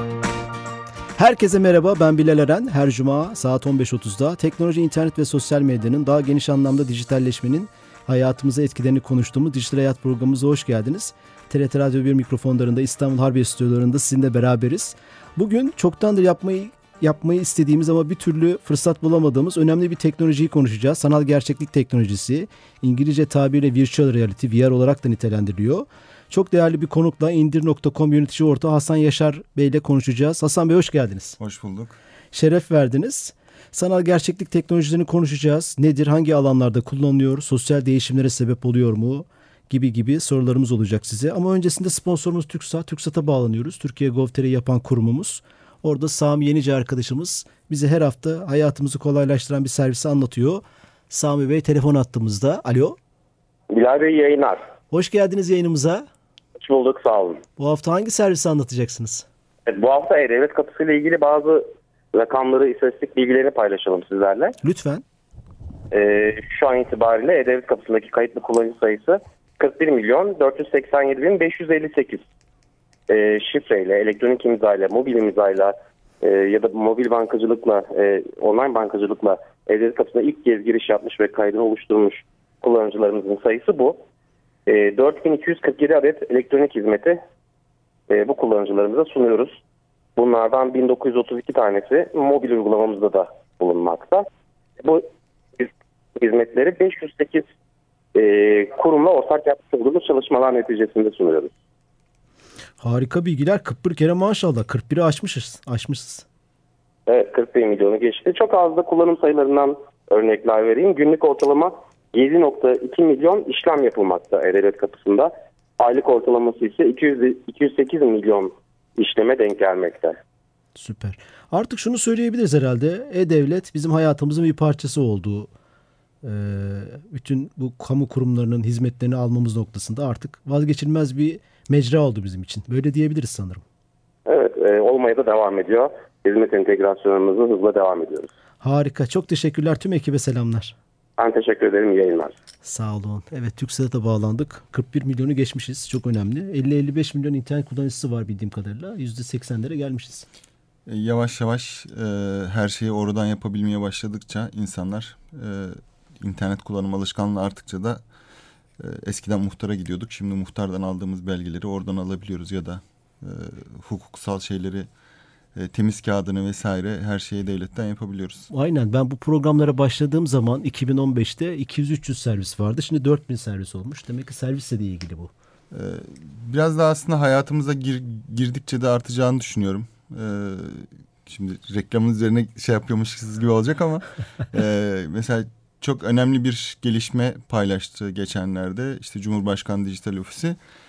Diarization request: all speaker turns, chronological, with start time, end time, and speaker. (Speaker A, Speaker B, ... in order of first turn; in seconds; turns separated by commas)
Speaker A: 1.2-31.4, Speaker B: 31.4-31.9, Speaker A: 32.3-53.0, Speaker C: 53.7-54.6, Speaker A: 54.9-56.0, Speaker C: 56.6-57.4, Speaker A: 57.6-59.2, Speaker C: 59.7-64.5, Speaker A: 64.6-65.0, Speaker C: 65.9-72.2, Speaker C: 73.1-84.0, Speaker C: 84.7-87.2, Speaker C: 88.1-89.5, Speaker C: 90.2-94.2, Speaker C: 94.8-97.4, Speaker C: 98.1-101.5, Speaker A: 102.8-106.2, Speaker C: 107.1-120.2, Speaker A: 120.8-125.5, Speaker A: 126.2-133.6, Speaker C: 134.2-138.3, Speaker A: 138.6-140.7, Speaker C: 141.2-142.3, Speaker A: 142.6-150.2, Speaker B: 150.9-158.0, Speaker B: 158.8-164.9, Speaker B: 165.5-168.5, Speaker A: 168.5-175.3, Speaker B: 175.7-190.6